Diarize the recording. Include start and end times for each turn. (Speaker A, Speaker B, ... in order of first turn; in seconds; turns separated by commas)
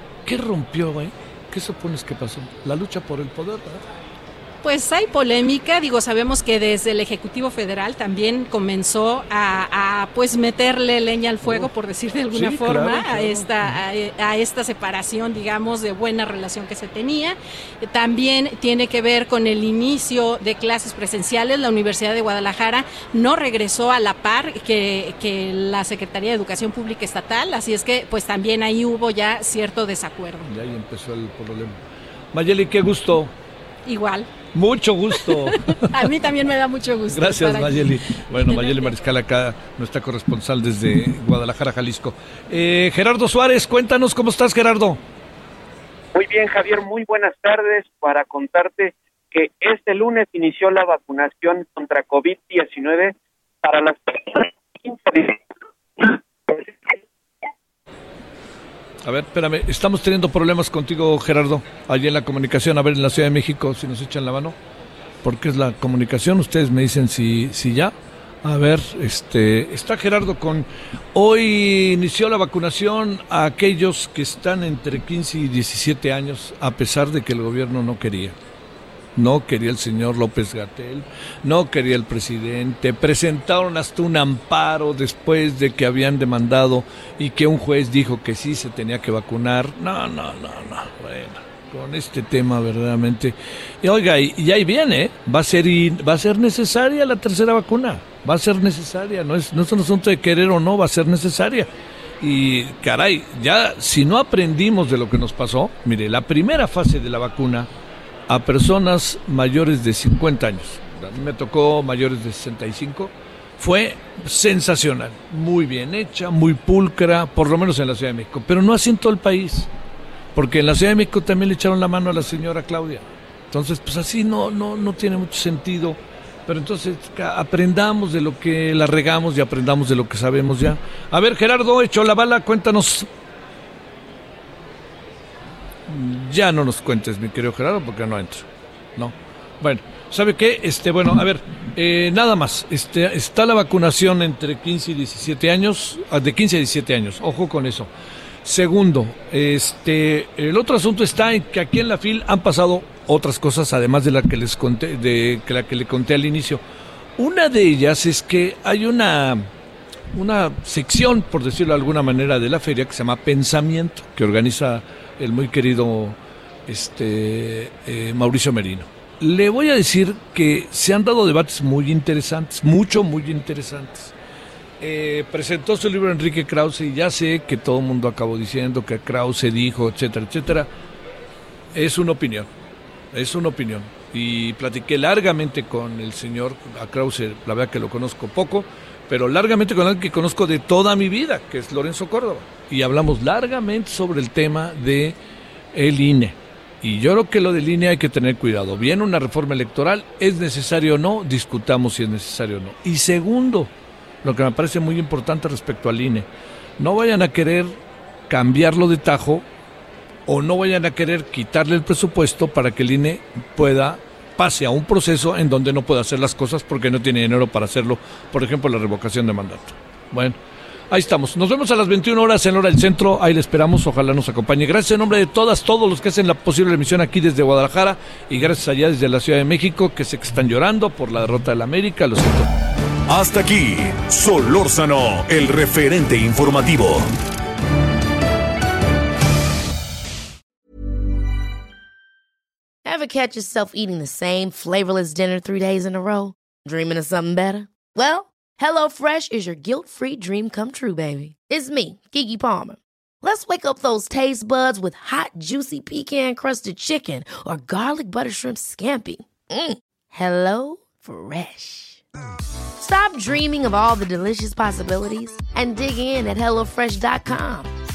Speaker A: 0.3-3.8, Speaker B: 4.6-30.5, Speaker A: 11.4-11.7, Speaker A: 12.3-13.8, Speaker A: 30.5-31.8, Speaker A: 32.3-33.3, Speaker B: 33.9-34.3, Speaker A: 34.5-36.2, Speaker B: 35.1-39.0, Speaker A: 37.1-45.0, Speaker C: 46.1-55.4, Speaker C: 56.0-56.9, Speaker A: 59.0-64.6, Speaker A: 65.2-67.9, Speaker A: 68.4-78.3, Speaker A: 79.2-101.7, Speaker A: 102.2-107.7, Speaker A: 108.3-119.7, Speaker A: 120.3-133.1, Speaker A: 135.9-147.9, Speaker A: 148.4-156.6, Speaker A: 157.2-159.5, Speaker A: 160.1-174.2, Speaker A: 174.8-180.7, Speaker A: 181.7-182.5, Speaker A: 183.1-195.2, Speaker A: 195.7-203.7, Speaker A: 204.2-206.3, Speaker A: 206.8-207.7, Speaker A: 208.3-209.4, Speaker A: 210.3-220.4, Speaker A: 220.9-232.5, Speaker D: 233.1-237.1, Speaker E: 242.8-262.0, Speaker E: 262.8-267.7